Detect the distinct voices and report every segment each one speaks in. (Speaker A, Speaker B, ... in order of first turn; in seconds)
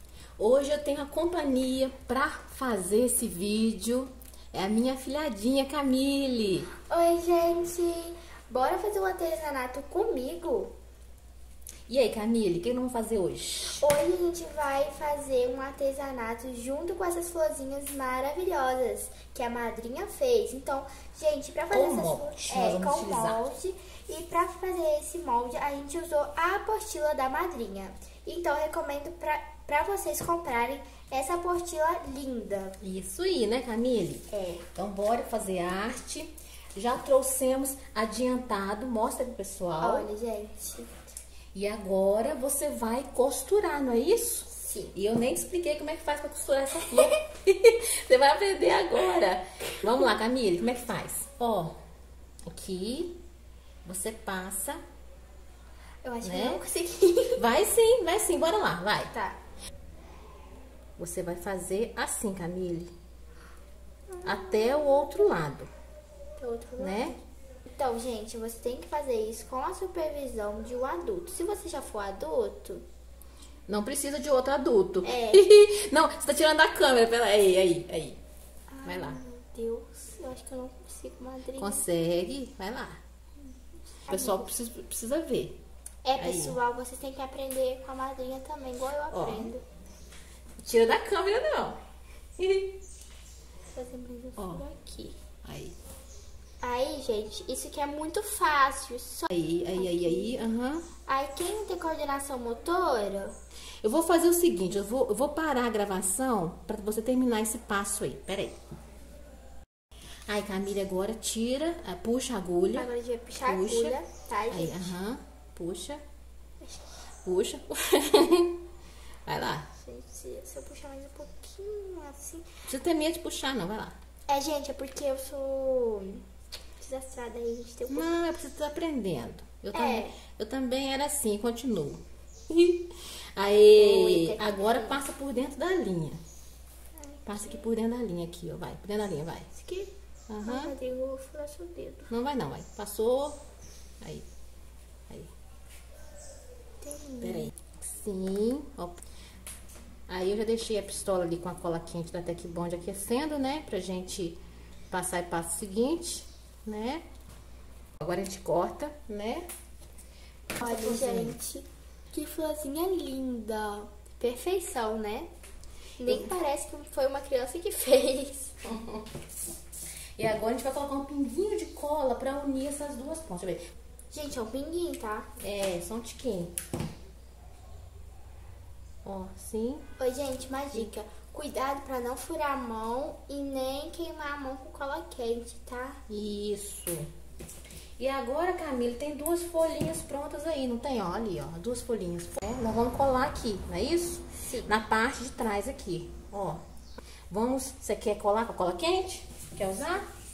Speaker A: 0.4-6.7, 11.9-13.8, 21.7-23.4, 32.8-40.1, 41.5-51.8, 52.5-53.2, 53.8-54.8, 56.2-56.6, 57.4-59.1, 61.0-62.9, 64.2-65.7, 66.8-67.2, 73.7-78.2, 78.8-79.2, 81.6-83.0, 84.1-85.6, 86.2-86.6, 89.1-89.5, 90.6-91.8, 92.4-92.8, 94.4-94.6, 95.4-95.7, 99.3-100.8, 103.8-108.6, 110.3-112.9, 113.4-114.0, 114.5-116.0, 117.2-118.6, 119.2-119.7, 122.7-123.9, 127.9-136.2, 137.2-139.5, 140.3-140.7, 142.1-143.4, 147.2-149.0, 150.1-154.4, 154.9-157.0, 158.0-159.4, 160.5-161.3, 168.6-169.1, 170.2-173.6, 175.4-176.5, 179.0-179.8, 186.1-187.1, 188.0-196.6, 197.3-200.1
Speaker B: 6.8-10.7, 13.8-32.8, 34.3-34.6, 39.8-41.0, 44.5-44.9, 56.0-57.4, 59.1-59.4, 64.2-65.1, 66.4-72.8, 75.0-75.5, 78.7-81.8, 84.1-84.5, 86.0-89.6, 93.7-95.2, 96.6-100.3, 101.1-103.3, 112.7-115.0, 116.6-116.9, 119.8-122.5, 124.3-126.2, 126.8-128.2, 129.7-130.2, 133.7-135.0, 137.0-137.6, 139.5-139.9, 140.4-142.1, 146.8-147.5, 160.6-165.3, 166.0-168.5, 174.1-175.3, 180.0-186.0, 194.4-194.7